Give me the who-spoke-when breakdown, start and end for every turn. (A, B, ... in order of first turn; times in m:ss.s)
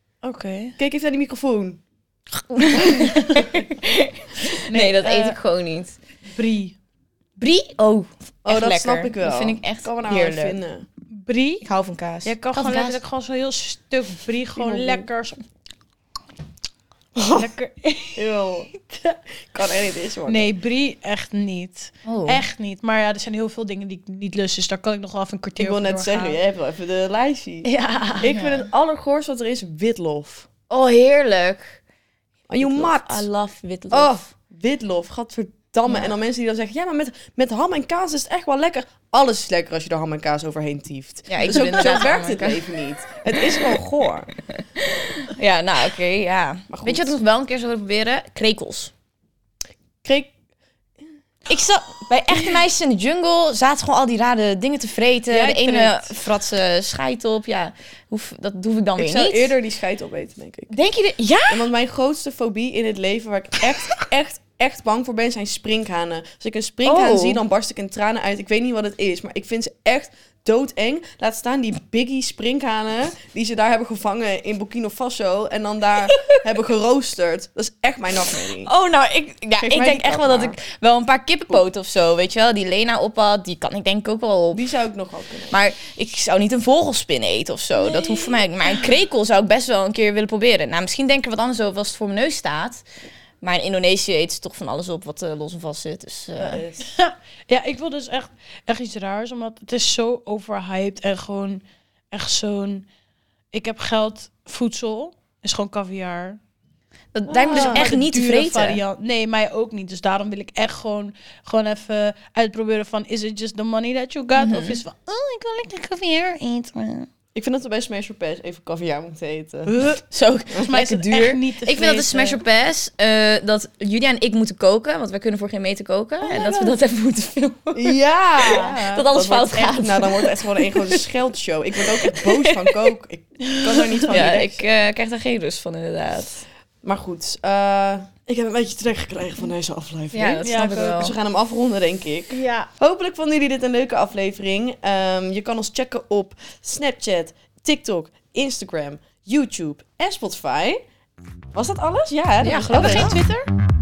0:00.2-0:00.8 A
0:00.8-0:01.8 B
0:02.5-0:06.0 C
0:04.7-0:05.4 A
0:06.3-0:06.8 A
0:07.4-0:10.6 C
0:08.4-0:10.9 B
0:11.1-0:11.6 A
0:11.6-0:13.0 C
0:12.2-0:15.4 A
0:14.6-0:15.1 B
0:17.2-0:17.5 B
0:17.3-0:19.2 A
0:18.2-0:18.7 B
0:19.5-0:20.5 B
0:20.3-0:26.4 A
0:22.1-0:22.4 C
0:25.6-0:27.7 B
0:27.7-0:28.5 A
0:27.8-0:28.5 C
0:28.2-0:30.5 B
0:30.7-0:31.8 C
0:32.5-0:33.3 B
0:32.6-0:34.3 C
0:33.9-0:44.3 B
0:41.3-0:42.6 C
0:44.8-0:48.9 C
0:46.7-0:47.2 B
0:50.0-0:50.3 B
0:51.5-0:59.5 C
0:55.3-0:56.1 B
0:59.0-1:00.7 B
1:00.7-1:01.7 C
1:01.5-1:18.7 B
1:06.8-1:07.4 C
1:18.6-1:24.7 C
1:19.6-1:20.6 B
1:24.5-1:25.6 B
1:25.5-1:32.8 C
1:33.4-1:36.6 C
1:36.4-1:36.9 B
1:36.8-1:42.9 A
1:43.5-1:46.4 A
1:47.1-1:48.8 C
1:47.3-1:57.1 A
1:47.5-1:47.9 B
1:54.4-1:54.8 C
1:57.3-1:59.7 B
1:59.7-2:00.0 A
2:00.1-2:11.0 C
2:00.6-2:02.4 A
2:06.2-2:06.8 A
2:07.7-2:14.7 B
2:08.5-2:09.1 A
2:12.1-2:12.7 C
2:13.5-2:14.1 A
2:14.1-2:16.5 C
2:16.8-2:30.8 B
2:20.1-2:21.2 C
2:20.4-2:20.9 A
2:22.3-2:22.7 A
2:31.5-2:33.2 B
2:32.4-2:33.2 C
2:32.7-2:33.5 A